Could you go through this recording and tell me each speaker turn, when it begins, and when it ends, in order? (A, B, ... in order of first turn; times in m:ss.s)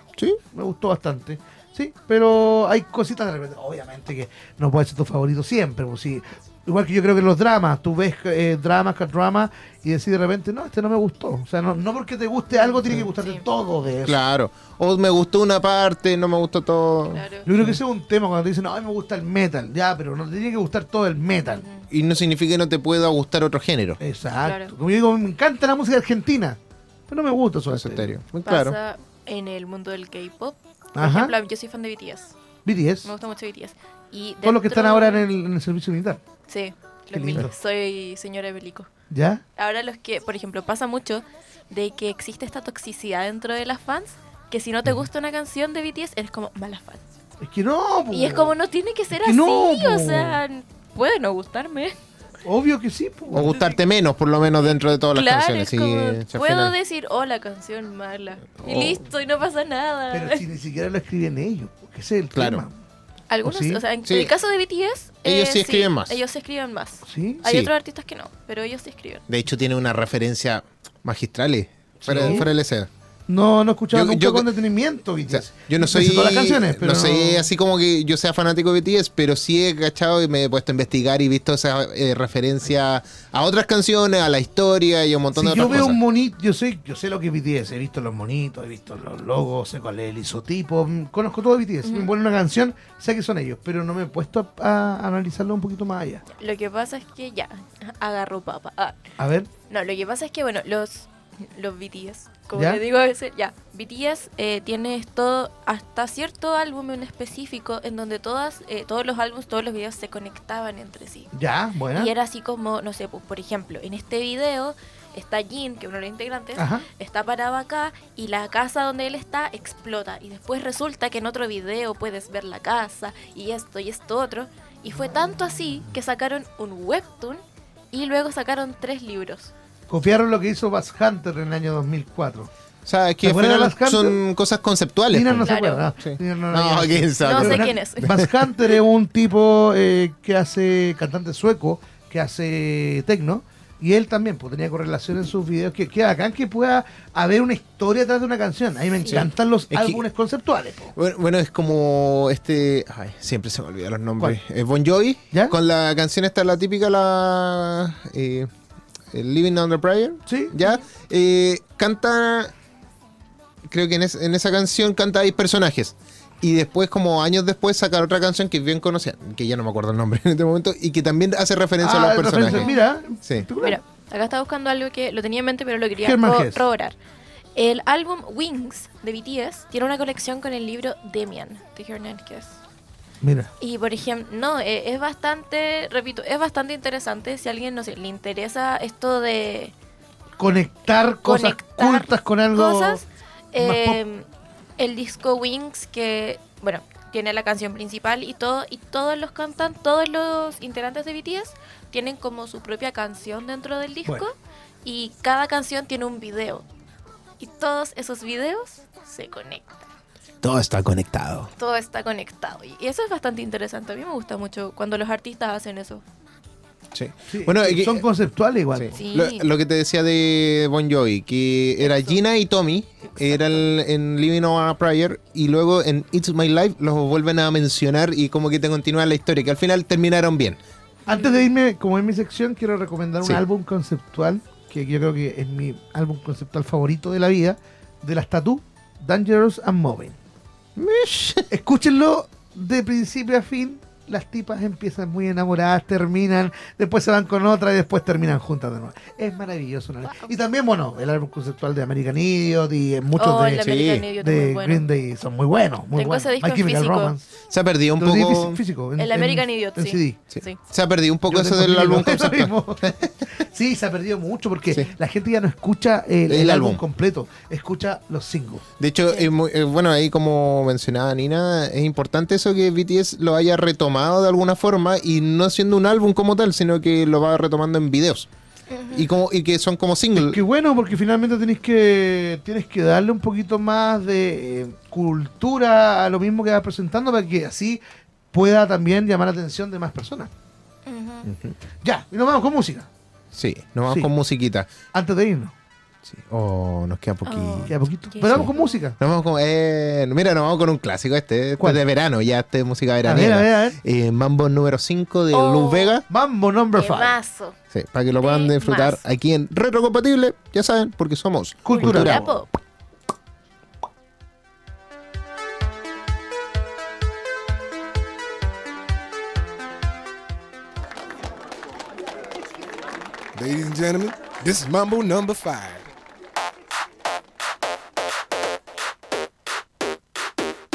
0:00.5-0:14.2 A
0:12.5-0:13.4 B
0:14.1-0:17.8 C
0:17.1-0:17.5 B
0:17.5-0:21.6 A
0:21.5-0:21.9 B
0:21.9-0:24.0 C
0:24.0-0:28.1 A
0:24.4-0:24.7 B
0:27.7-0:28.8 C
0:28.5-0:32.3 B
0:31.0-0:31.4 A
0:32.6-0:33.1 A
0:33.0-0:35.3 B
0:34.4-0:36.2 A
0:36.5-0:38.9 B
0:37.1-0:37.5 A
0:39.1-0:39.4 A
0:39.6-0:47.0 B
0:47.4-0:48.5 A
0:48.1-0:52.0 B
0:49.1-0:50.4 A
0:52.4-0:53.5 A
0:53.3-0:56.7 C
0:55.1-1:00.4 B
0:58.6-0:59.0 C
1:00.1-1:02.8 A
1:02.4-1:02.6 C
1:03.3-1:09.2 B
1:03.4-1:03.8 A
1:04.1-1:04.3 C
1:05.2-1:06.2 C
1:07.0-1:07.4 A
1:07.4-1:07.7 C
1:09.3-1:12.9 C
1:12.0-1:12.5 A
1:12.2-1:12.5 B
1:13.3-1:17.5 A
1:13.9-1:14.5 C
1:15.3-1:26.0 C
1:25.3-1:36.2 A
1:31.8-1:32.1 B
1:36.3-1:39.0 B
1:39.2-1:39.5 A
1:39.7-1:51.3 B
1:42.5-1:42.8 A
1:51.3-1:52.1 A
1:51.9-2:09.5 B
1:56.6-1:56.9 A
2:09.9-2:12.5 A
2:12.8-2:15.5 C
2:13.2-2:14.2 A
2:15.1-2:31.0 A
2:15.4-2:15.8 B
2:16.0-2:18.3 C
2:17.2-2:18.1 B
2:29.1-2:30.0 C
2:31.0-2:38.5 C
2:39.1-2:42.5 C
2:40.3-2:40.5 A
2:43.7-2:52.7 C
2:51.8-2:53.8 A
2:52.5-2:52.8 B
2:53.6-2:57.0 B
2:56.0-2:56.6 A
2:57.6-3:02.6 B
3:03.2-3:03.5 A
3:03.6-3:09.7 B
3:10.4-3:13.0 A
3:11.2-3:14.3 B
3:13.6-3:14.0 A
3:14.8-3:26.6 B
3:27.4-3:29.8 B
3:30.4-3:31.5 C
3:31.6-3:36.0 B
3:36.9-3:38.0 C
3:37.3-3:38.9 A
3:38.8-3:50.6 C
3:38.9-3:39.5 B
3:41.8-3:42.2 B
3:51.1-4:00.2 A
3:51.1-3:51.4 B
4:00.8-4:01.5 C
4:01.5-4:17.3 A
4:10.1-4:10.3 B
4:13.2-4:14.8 B
4:13.6-4:14.1 C
4:15.9-4:17.1 B
4:17.5-4:18.6 C
4:18.0-4:20.2 A
4:19.0-4:20.6 B
4:20.3-4:22.5 C
4:21.3-4:28.6 A
4:26.3-4:26.8 C
4:28.8-4:38.3 C
4:38.7-4:39.1 B
4:38.9-4:40.4 C
4:40.2-4:47.8 A
4:48.3-4:50.3 A
4:50.9-4:51.3 B
4:51.8-4:52.9 A
4:53.3-4:54.7 C
4:54.9-4:55.6 A
4:56.1-5:06.0 C
4:57.3-4:58.8 B
4:57.7-4:59.0 A
5:03.0-5:03.8 A
5:05.3-5:06.0 B
5:06.1-5:07.2 A
5:06.8-5:07.6 B
5:07.7-5:12.4 C
5:08.2-5:09.0 B
5:11.6-5:12.2 A
5:11.7-5:12.5 B
5:23.4-5:25.9 D